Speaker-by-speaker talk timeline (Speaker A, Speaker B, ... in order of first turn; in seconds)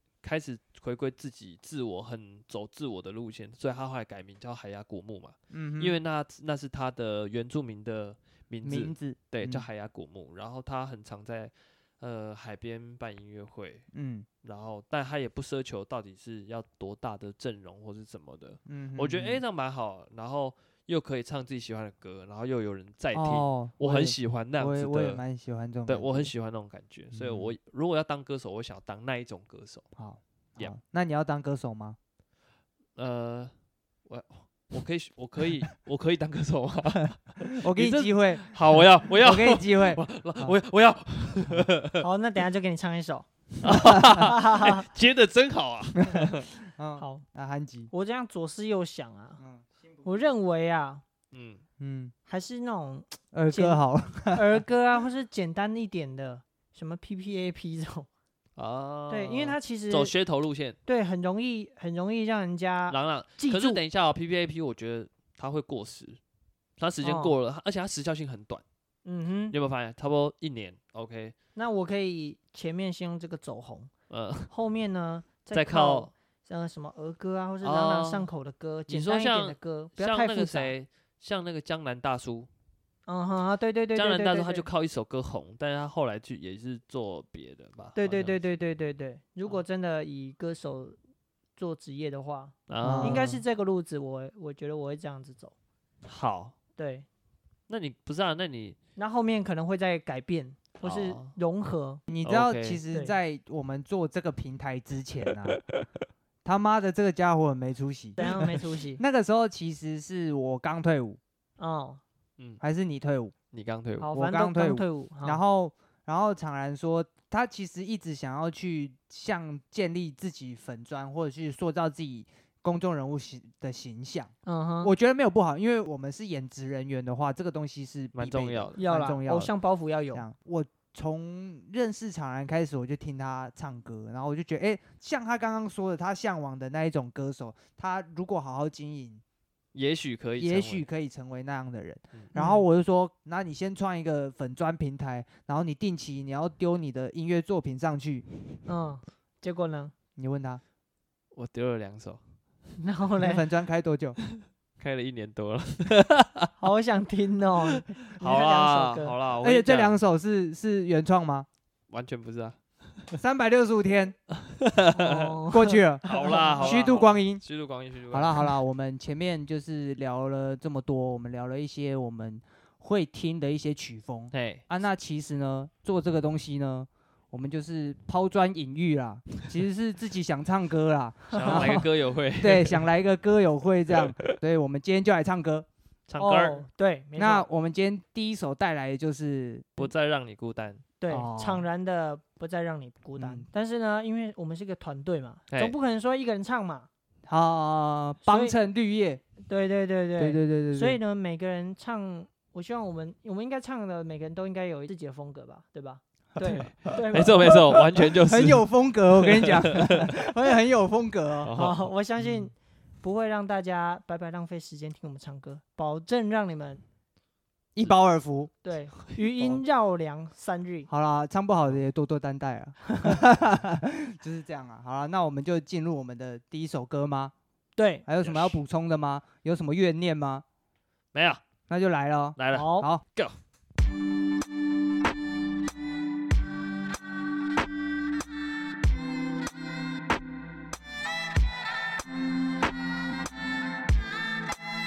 Speaker A: 0.2-13.8, 14.4-25.2, 25.9-29.8, 33.0-33.5, 34.0-42.0, 43.6-46.5, 51.3-51.6, 58.5-60.8, 62.9-66.2, 66.8-68.6, 69.5-71.3, 74.1-74.5, 75.5-76.1, 77.6-78.3, 78.9-82.5, 83.9-88.3, 92.7-93.4, 96.0-96.5, 97.7-98.8, 100.8-101.3, 102.2-102.8, 105.5-105.8, 113.5-114.1, 128.1-128.8, 139.7-140.8, 151.3-152.2, 154.4-156.5, 157.7-160.0, 161.9-162.6, 164.3-165.4, 166.0-168.5, 174.3-174.6, 181.3-182.8, 184.0-184.3, 186.1-186.6, 189.8-190.8, 206.4-210.1, 211.4-211.9, 219.1-219.6, 228.2-228.6, 231.1-231.4, 232.4-233.3
Speaker B: 5.5-6.0, 8.6-9.7, 13.9-14.3, 18.7-19.4, 23.1-26.3, 27.1-27.5, 30.0-32.0, 37.6-38.5, 39.2-40.5, 46.0-47.9, 51.8-52.1, 53.3-54.5, 92.8-93.2, 102.1-105.6, 106.4-111.2, 112.6-113.3, 114.1-129.5, 130.1-139.2, 140.4-148.2, 150.2-150.6, 153.2-154.2, 159.4-161.5, 163.2-164.2, 165.5-167.4, 168.1-181.8, 182.4-185.7, 187.2-189.8, 191.1-191.6, 193.2-193.5, 197.3-199.2, 200.2-201.0, 207.5-211.5, 217.7-218.5, 220.9-227.3, 228.1-230.4, 231.7-233.0
Speaker C: 42.0-43.3, 44.1-44.9, 47.0-47.2, 47.9-49.4, 50.0-51.0, 52.3-58.1, 59.1-60.1, 60.9-63.8, 67.0-67.3, 69.0-69.5, 71.5-73.9, 74.5-80.7, 83.0-84.7, 88.0-91.0, 91.5-95.5, 96.8-97.1, 99.0-102.0, 108.2-109.0, 111.6-112.0, 114.0-115.4, 124.4-124.9, 128.8-130.2, 142.3-142.7, 148.7-149.9, 152.8-153.4, 156.6-159.1, 164.9-166.9, 181.3-181.7, 186.2-187.4, 191.0-196.9, 198.2-198.5, 199.5-207.6, 211.6-216.8, 218.6-220.9, 222.9-223.2, 227.8-228.0, 232.5-232.9